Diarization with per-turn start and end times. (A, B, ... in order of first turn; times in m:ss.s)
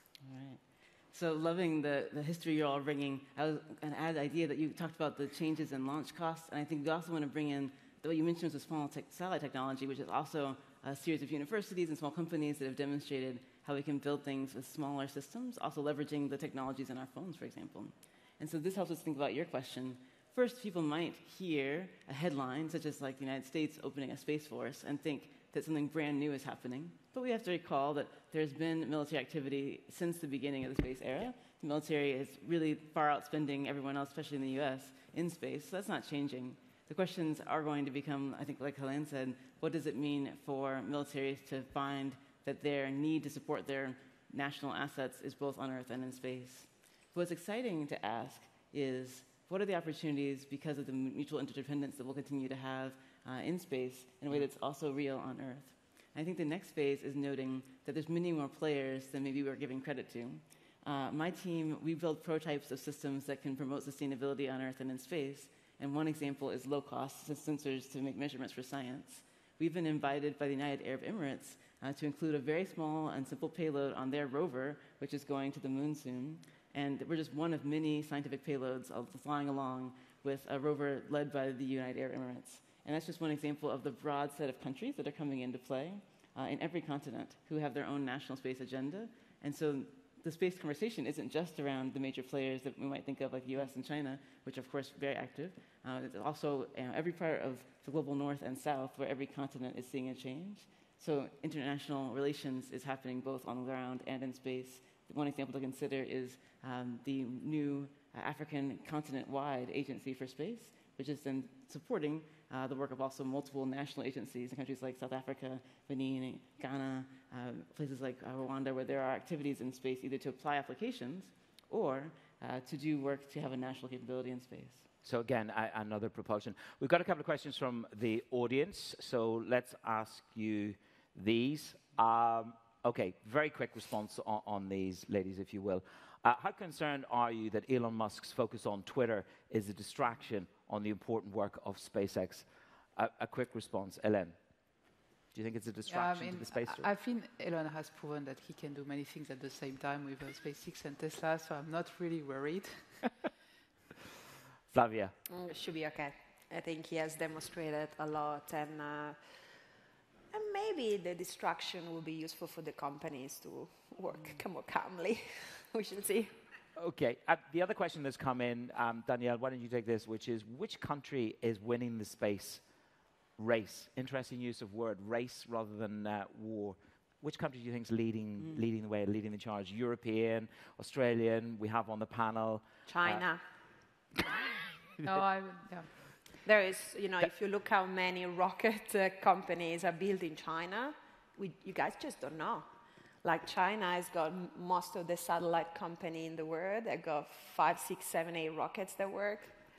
0:00.2-2:04.9 A
2:05.0-2:24.4 B
2:25.3-2:26.9 B
2:25.9-2:33.1 C
2:34.7-2:35.1 B
2:35.3-2:39.2 D
2:40.3-2:46.3 D
2:46.8-2:52.6 B
2:53.4-3:03.2 B
3:02.9-3:03.4 D
3:05.0-3:05.9 C
3:06.4-3:12.7 D
3:13.2-3:19.6 D